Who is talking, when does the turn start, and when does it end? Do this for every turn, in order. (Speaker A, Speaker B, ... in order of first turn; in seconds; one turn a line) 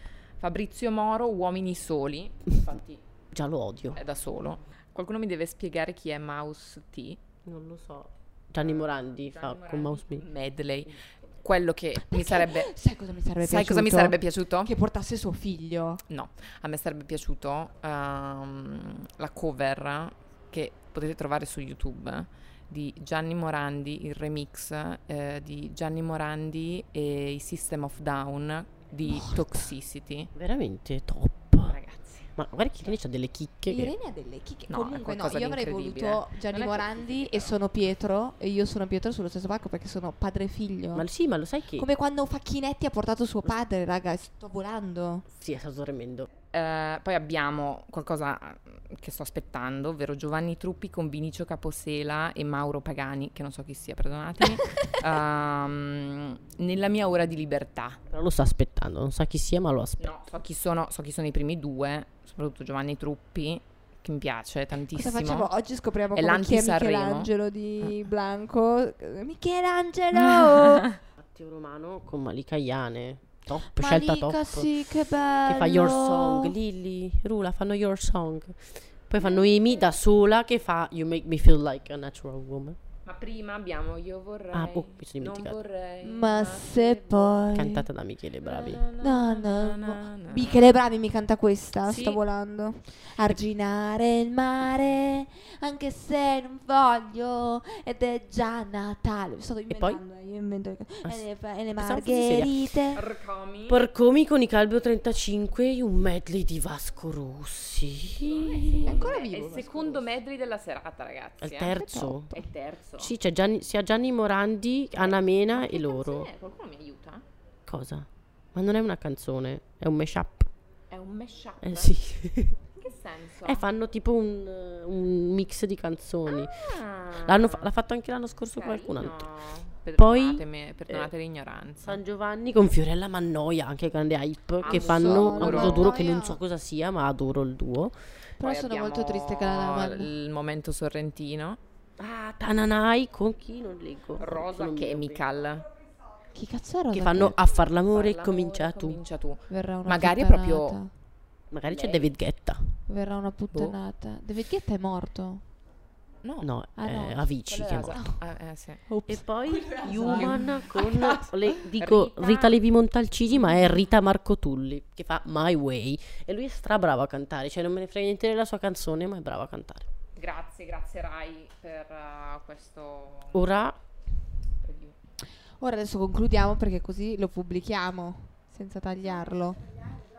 Speaker A: 0.4-3.0
Speaker B: 3.3-4.0
Speaker A: 3.9-7.2
Speaker B: 7.5-10.3
Speaker A: 8.6-12.7
Speaker C: 11.9-16.0
Speaker A: 13.4-14.7
Speaker A: 16.1-30.3
Speaker C: 29.1-29.6
Speaker B: 30.4-31.8
Speaker A: 31.6-32.3
Speaker B: 32.4-33.9
Speaker C: 33.7-41.1
Speaker A: 34.7-37.6
Speaker B: 40.9-41.9
Speaker C: 41.8-45.3
Speaker B: 45.3-46.3
Speaker A: 46.5-58.0
Speaker B: 58.1-60.2
Speaker A: 60.0-65.5
Speaker C: 64.9-70.9
Speaker A: 66.1-67.3
Speaker B: 71.2-82.8
Speaker C: 73.7-76.6
Speaker A: 83.0-87.5
Speaker B: 84.5-85.6
Speaker C: 86.0-87.9
Speaker B: 87.5-88.8
Speaker A: 88.4-90.8
Speaker C: 89.0-103.0
Speaker A: 91.8-92.2
Speaker B: 99.7-100.0
Speaker B: 101.0-102.8
Speaker A: 102.9-103.9
Speaker B: 103.7-110.1
Speaker A: 108.2-111.8
Speaker C: 108.8-109.2
Speaker B: 111.4-112.4
Speaker C: 111.7-112.5
Speaker A: 112.3-113.1
Speaker B: 113.0-116.3
Speaker A: 115.0-117.2
Speaker B: 117.7-120.5
Speaker A: 120.9-122.0
Speaker B: 121.6-122.6
Speaker A: 122.8-123.7
Speaker B: 123.4-129.3
Speaker A: 126.3-127.7
Speaker A: 128.5-132.0
Speaker B: 130.0-131.1
Speaker B: 131.8-138.0
Speaker A: 134.6-135.9
Speaker C: 134.6-136.4
Speaker C: 138.4-140.1
Speaker A: 138.4-141.6
Speaker B: 142.0-145.2
Speaker A: 144.2-145.7
Speaker C: 146.3-147.4
Speaker B: 146.9-149.0
Speaker A: 147.8-150.8
Speaker C: 149.5-150.9
Speaker B: 151.5-152.8
Speaker A: 151.7-152.2
Speaker C: 152.9-155.4
Speaker A: 153.5-153.8
Speaker A: 156.2-156.5
Speaker B: 156.4-158.1
Speaker C: 156.8-157.2
Speaker A: 157.3-158.8
Speaker C: 157.9-158.2
Speaker C: 158.9-161.2
Speaker B: 159.1-169.9
Speaker A: 159.9-160.6
Speaker A: 161.8-162.6
Speaker A: 170.2-173.5
Speaker B: 173.3-173.8
Speaker A: 174.6-175.0
Speaker C: 175.6-179.7